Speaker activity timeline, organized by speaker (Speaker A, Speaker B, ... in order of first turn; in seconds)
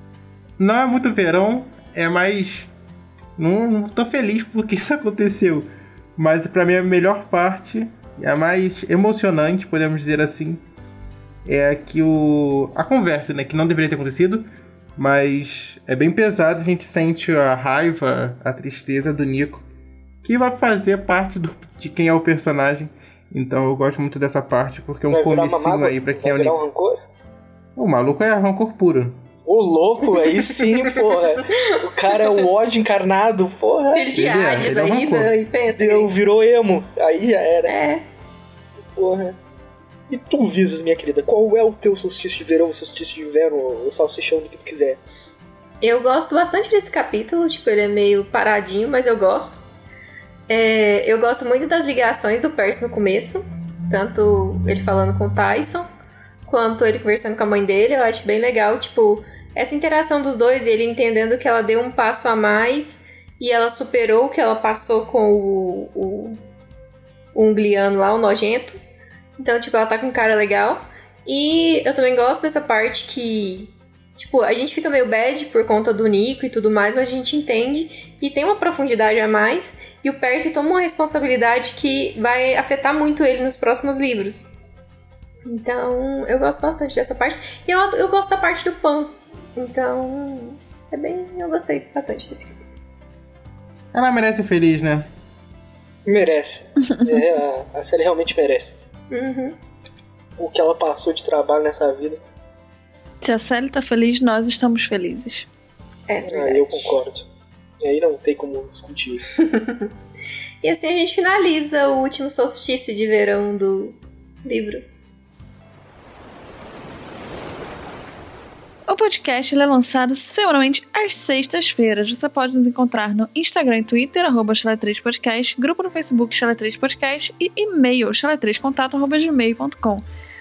Speaker A: 0.6-2.7, 3.4-10.6, 11.5-14.5, 15.0-19.6, 20.2-26.6, 27.8-29.2, 34.1-35.3, 93.9-95.1
Speaker B: 25.1-27.0, 29.4-34.2, 35.8-37.7, 39.0-39.4, 40.1-45.0, 96.1-98.8, 100.4-102.2, 106.3-107.2, 107.8-109.3
Speaker C: 30.2-32.5, 33.9-36.1, 37.7-38.0, 45.8-49.6, 50.5-55.9, 56.5-66.4, 67.3-68.8, 69.4-84.5, 85.5-92.7, 99.1-99.6, 106.1-107.0, 109.4-109.9, 110.6-114.8
Speaker D: 103.2-105.5, 118.9-130.0